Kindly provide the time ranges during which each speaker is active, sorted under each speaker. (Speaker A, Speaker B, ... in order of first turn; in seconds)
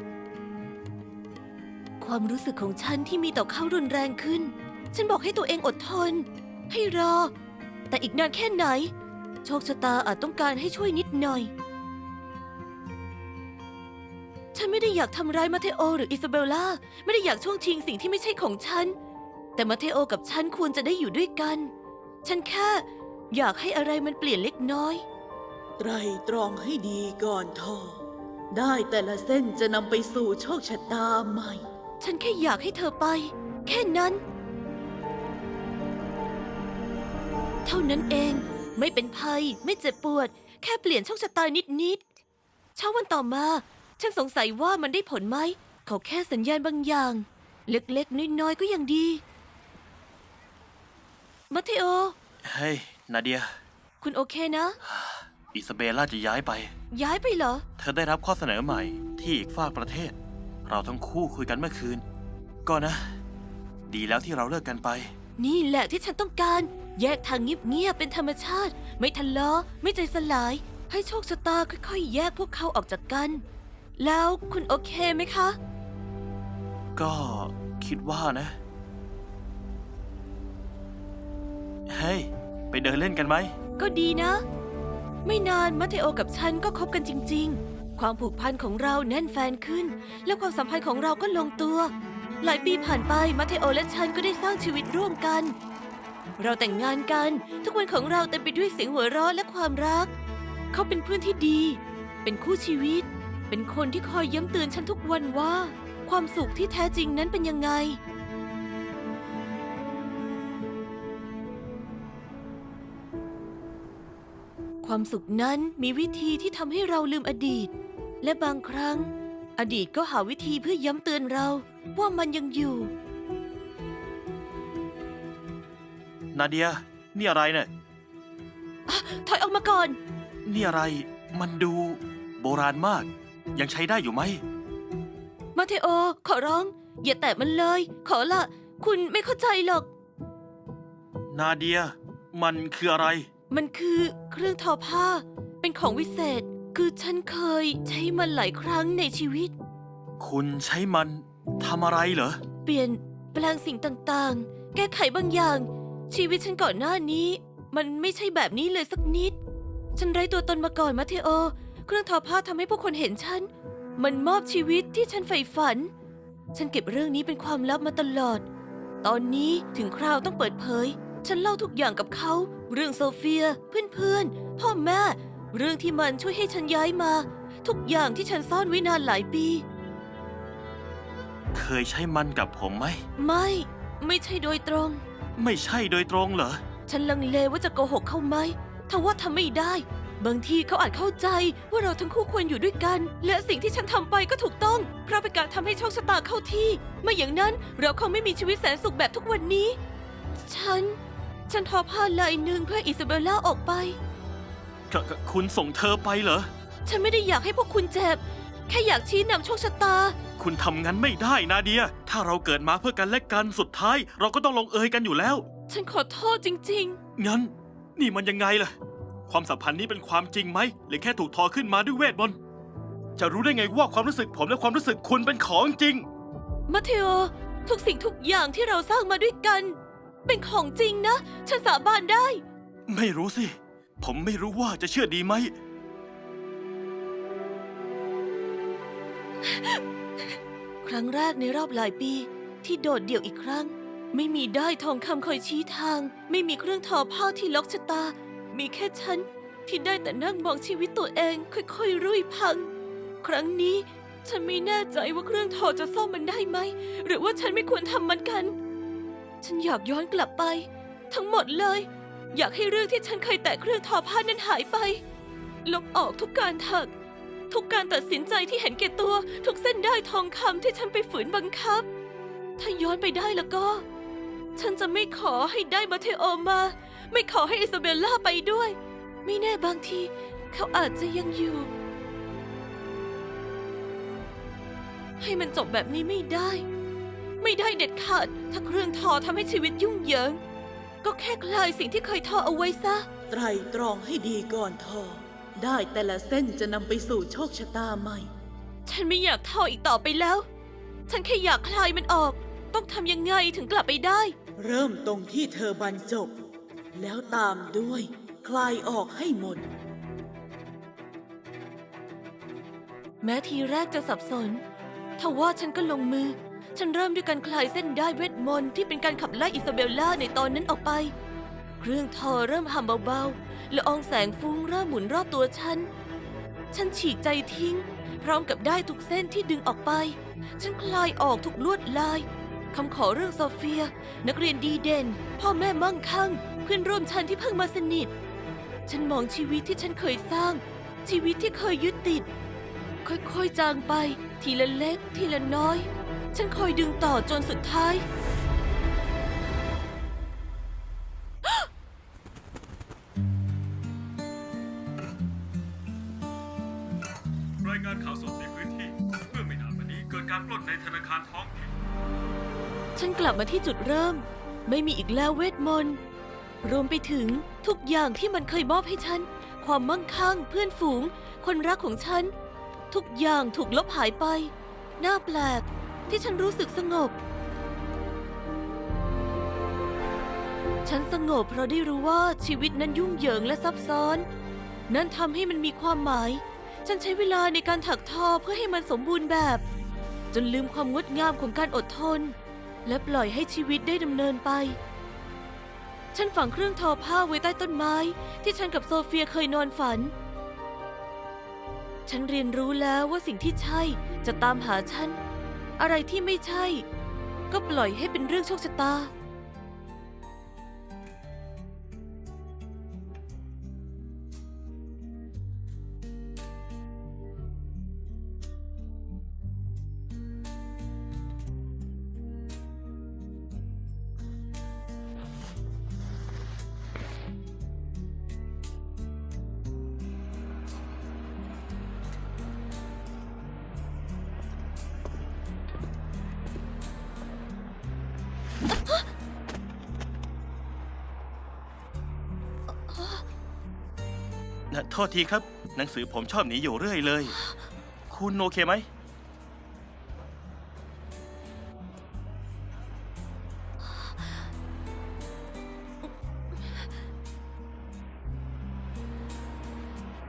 Speaker A: 2.0-7.3, 7.9-8.9, 9.4-11.5, 14.5-18.9, 19.6-21.7, 22.2-25.0, 32.0-34.2, 37.6-42.0, 42.8-49.2, 51.5-52.1, 54.0-54.8, 56.9-57.6, 65.4-73.4, 74.0-75.6, 83.8-84.4, 85.2-95.5, 96.4-100.1, 100.7-108.0, 114.8-122.9, 128.9-130.0, 135.5-139.9, 143.5-149.5, 152.6-159.4, 159.9-165.9, 166.5-168.4, 169.0-179.6, 183.2-185.0, 186.9-199.8, 200.4-204.0, 206.8-210.2, 215.7-217.0, 226.7-232.4, 239.4-258.6, 259.4-265.0, 265.6-266.9, 267.5-271.9, 272.6-273.8, 274.6-281.7, 285.2-286.6, 287.4-290.4, 291.0-293.1, 298.9-300.4, 301.1-304.3, 313.2-314.6, 315.2-321.1, 321.8-325.9, 326.7-338.1, 338.9-342.3, 343.0-348.0, 362.9-366.0, 366.6-372.3, 372.9-377.1, 380.8-384.2, 384.9-389.6, 390.3-394.8, 396.1-400.1, 402.1-405.2, 405.8-406.8, 407.5-409.1, 442.9-443.2, 447.3-447.6, 453.8-454.2
Speaker B: 25.8-31.6, 293.3-298.3, 304.6-306.3, 306.9-309.6
Speaker C: 52.4-53.5, 54.8-56.7, 57.8-60.1, 60.6-62.0, 62.6-63.1, 63.9-65.1, 77.0-78.6, 81.9-83.5, 126.3-127.7, 130.4-134.4, 141.3-143.3, 150.2-152.4, 181.5-183.0, 185.4-186.6, 204.9-206.5, 210.4-215.4, 217.2-218.7, 219.3-222.4, 223.2-226.1, 232.9-235.5, 444.7-447.4, 448.1-448.9
Speaker D: 357.6-361.7